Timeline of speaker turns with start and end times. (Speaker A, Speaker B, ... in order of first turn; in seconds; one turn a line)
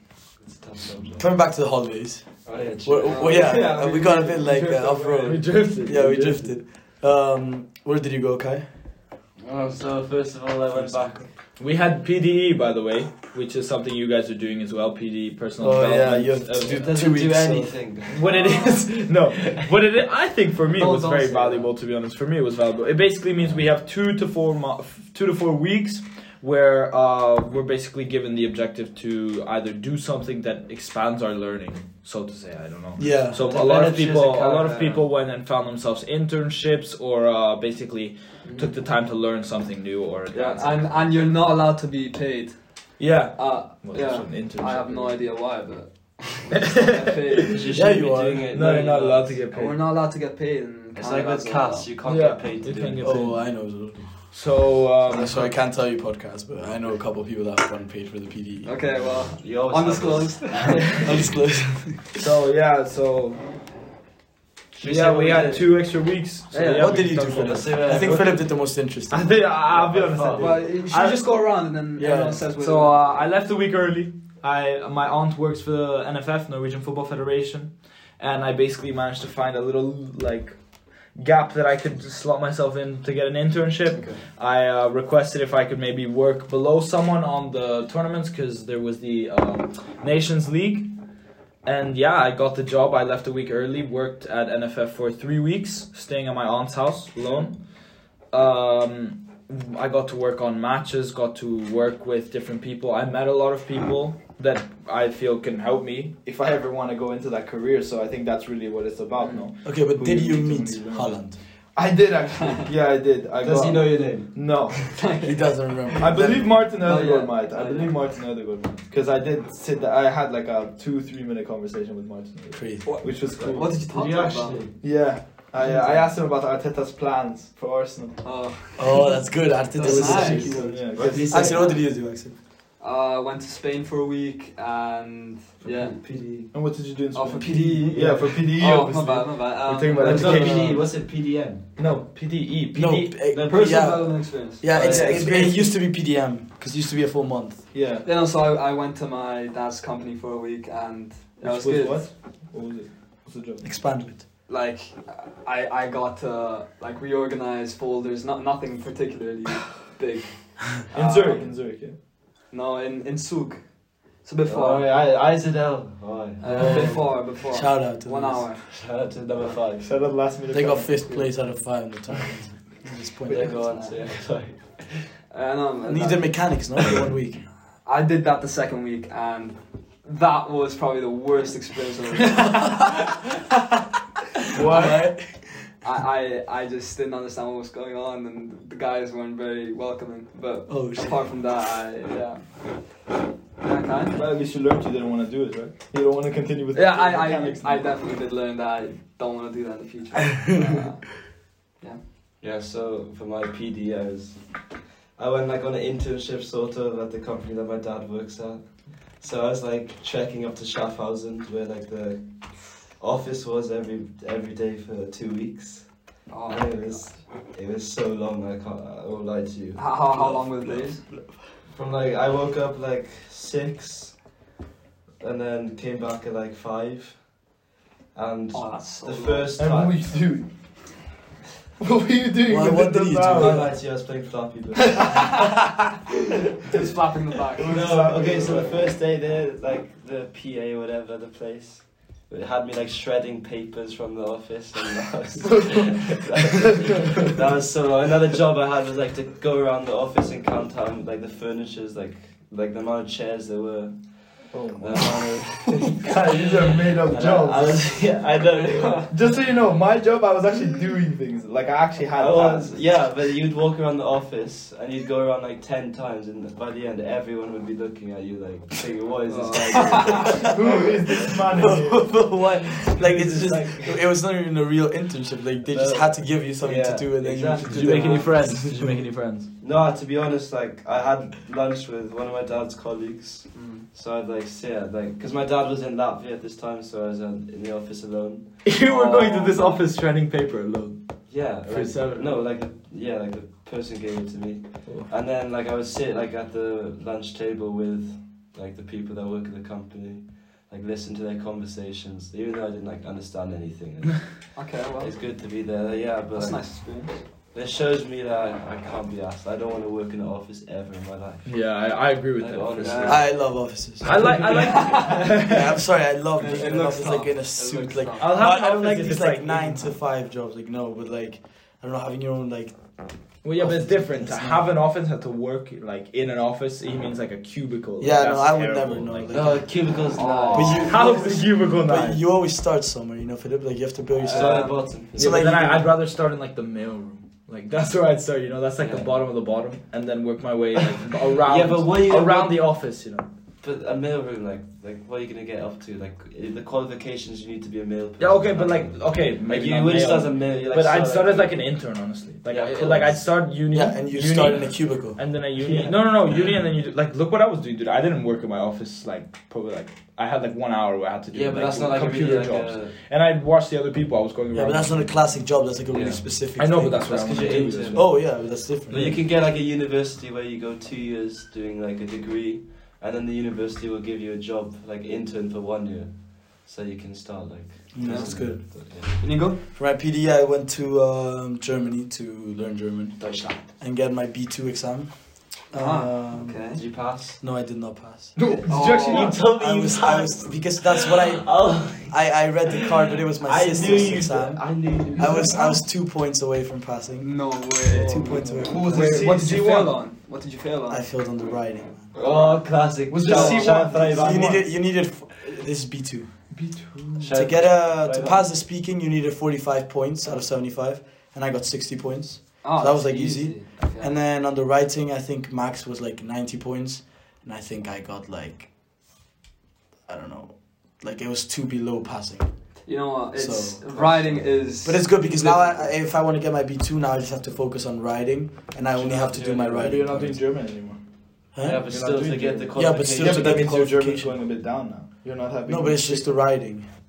Speaker A: 0.3-1.2
Speaker B: 1.2-8.7
Speaker A: 2.5-3.6
Speaker C: 3.0-5.4
Speaker D: 5.2-6.5
Speaker A: 9.4-11.3
Speaker B: 10.7-11.2
Speaker D: 11.6-16.9
Speaker B: 15.6-17.8
Speaker A: 16.6-19.6
Speaker D: 18.1-41.1
Speaker C: 18.3-18.7
Speaker C: 20.8-21.7
Speaker B: 33.0-33.4
Speaker A: 33.5-35.0
Speaker C: 38.4-38.7
Speaker C: 40.3-47.5
Speaker D: 43.0-45.1
Speaker D: 46.6-47.4
Speaker A: 47.4-49.4
Speaker B: 47.7-48.5
Speaker D: 48.5-49.8
Speaker C: 49.5-51.9
Speaker A: 51.0-53.1
Speaker D: 52.0-53.7
Speaker B: 53.0-54.3
Speaker D: 54.3-55.5
Speaker B: 55.0-58.7
Speaker C: 58.6-61.0
Speaker A: 59.4-61.4
Speaker B: 61.0-62.1
Speaker D: 62.1-63.4
Speaker A: 64.8-65.7
Speaker D: 64.8-68.4
Speaker C: 66.5-67.2
Speaker B: 66.7-69.4
Speaker A: 67.3-68.5
Speaker D: 69.1-71.2
Speaker A: 69.7-70.7
Speaker C: 70.4-73.0
Speaker B: 72.0-72.4
Speaker D: 72.6-90.9
Speaker C: 83.9-84.2
Speaker D: 91.6-97.6
Speaker D: 98.3-115.0
Speaker C: 109.2-109.5
Speaker B: 109.6-111.4
Speaker A: 113.4-114.8
Speaker C: 114.9-117.9
Speaker B: 115.2-116.6
Speaker D: 116.0-123.8
Speaker B: 122.5-122.9
Speaker C: 122.8-124.6
Speaker A: 123.4-124.8
Speaker D: 124.8-128.2
Speaker C: 128.2-131.8
Speaker B: 128.8-132.3
Speaker D: 129.8-131.6
Speaker A: 130.9-131.7
Speaker C: 132.8-136.0
Speaker A: 135.6-136.5
Speaker D: 136.5-141.2
Speaker C: 137.1-140.6
Speaker A: 137.9-138.4
Speaker A: 140.0-141.8
Speaker D: 141.8-143.2
Speaker B: 142.7-147.7
Speaker A: 143.3-143.9
Speaker C: 143.4-145.3
Speaker D: 144.7-145.7
Speaker A: 144.8-145.3
Speaker D: 147.7-148.1
Speaker C: 148.0-152.1
Speaker D: 151.4-153.6
Speaker B: 153.6-154.2
Speaker C: 154.5-161.5
Speaker D: 160.9-161.9
Speaker C: 162.5-164.9
Speaker A: 164.5-166.9
Speaker C: 166.4-168.9
Speaker B: 166.4-168.5
Speaker A: 168.7-169.9
Speaker D: 169.8-171.3
Speaker B: 170.5-173.8
Speaker A: 173.2-175.1
Speaker C: 173.5-174.0
Speaker C: 175.3-176.5
Speaker B: 175.8-177.4
Speaker C: 177.8-183.1
Speaker D: 184.5-185.1
Speaker B: 184.6-185.5
Speaker C: 185.8-192.7
Speaker B: 190.7-191.2
Speaker C: 193.6-194.2
Speaker D: 194.1-197.9
Speaker C: 196.7-202.0
Speaker A: 202.4-220.0
Speaker C: 216.3-217.1
Speaker C: 219.8-221.0
Speaker B: 221.0-221.4
Speaker A: 221.6-224.2
Speaker A: 225.2-227.5
Speaker A: 228.1-230.1
Speaker C: 228.5-229.5
Speaker D: 229.6-230.5
Speaker D: 231.8-233.7
Speaker B: 232.5-233.7
Speaker A: 233.3-235.3
Speaker D: 234.9-235.4
Speaker C: 236.6-238.3
Speaker D: 237.6-238.9
Speaker A: 237.7-259.1
Speaker D: 254.5-258.1
Speaker C: 258.7-259.1
Speaker D: 259.1-262.8
Speaker A: 262.1-270.9
Speaker C: 269.3-270.5
Speaker D: 270.4-272.2
Speaker B: 271.6-279.1
Speaker A: 272.8-274.0
Speaker A: 275.7-278.5
Speaker D: 277.7-279.5
Speaker A: 279.6-288.6
Speaker C: 283.5-283.9
Speaker D: 288.6-292.4
Speaker C: 288.8-289.7
Speaker A: 291.3-315.2
Speaker C: 304.5-305.2
Speaker C: 306.3-307.2
Speaker D: 311.4-313.2
Speaker C: 312.8-313.2
Speaker B: 313.1-314.4
Speaker D: 314.0-315.7
Speaker C: 314.4-315.4
Speaker B: 315.3-324.7
Speaker C: 316.4-318.4
Speaker D: 318.2-319.9
Speaker D: 323.4-329.5
Speaker B: 328.0-329.9
Speaker A: 329.3-331.0
Speaker C: 330.1-330.9
Speaker B: 330.5-335.8
Speaker D: 330.8-332.2
Speaker C: 334.2-334.9
Speaker A: 334.3-335.7
Speaker D: 335.1-343.3
Speaker A: 338.8-339.1
Speaker A: 341.4-342.7
Speaker A: 343.6-351.8
Speaker D: 348.2-365.3
Speaker A: 352.5-353.3
Speaker B: 353.7-355.2
Speaker A: 355.6-356.6
Speaker A: 361.3-363.0
Speaker B: 364.5-367.3
Speaker A: 365.9-366.3
Speaker D: 366.6-368.2
Speaker A: 367.0-379.2
Speaker B: 367.8-369.2
Speaker B: 377.9-379.2
Speaker C: 378.0-379.6
Speaker B: 379.7-386.7
Speaker A: 383.2-383.6
Speaker C: 385.7-386.8
Speaker A: 386.7-387.4
Speaker B: 387.3-388.4
Speaker D: 388.4-389.4
Speaker C: 388.7-389.4
Speaker A: 388.9-395.6
Speaker B: 389.4-399.1
Speaker D: 395.2-395.7
Speaker C: 397.2-401.1
Speaker A: 398.4-398.7
Speaker D: 398.6-400.0
Speaker B: 400.9-402.1
Speaker A: 402.1-404.6
Speaker C: 402.2-402.6
Speaker D: 403.1-404.6
Speaker C: 403.2-403.8
Speaker B: 403.9-406.6
Speaker D: 406.5-407.3
Speaker A: 407.2-408.5
Speaker B: 407.3-418.7
Speaker C: 412.6-414.1
Speaker B: 420.1-424.0
Speaker C: 422.9-425.9
Speaker A: 423.9-424.4
Speaker B: 424.8-430.4
Speaker A: 428.9-430.0
Speaker D: 429.8-431.0
Speaker B: 431.5-431.8
Speaker A: 431.6-433.7
Speaker D: 431.9-436.3
Speaker B: 432.7-434.4
Speaker B: 435.6-436.9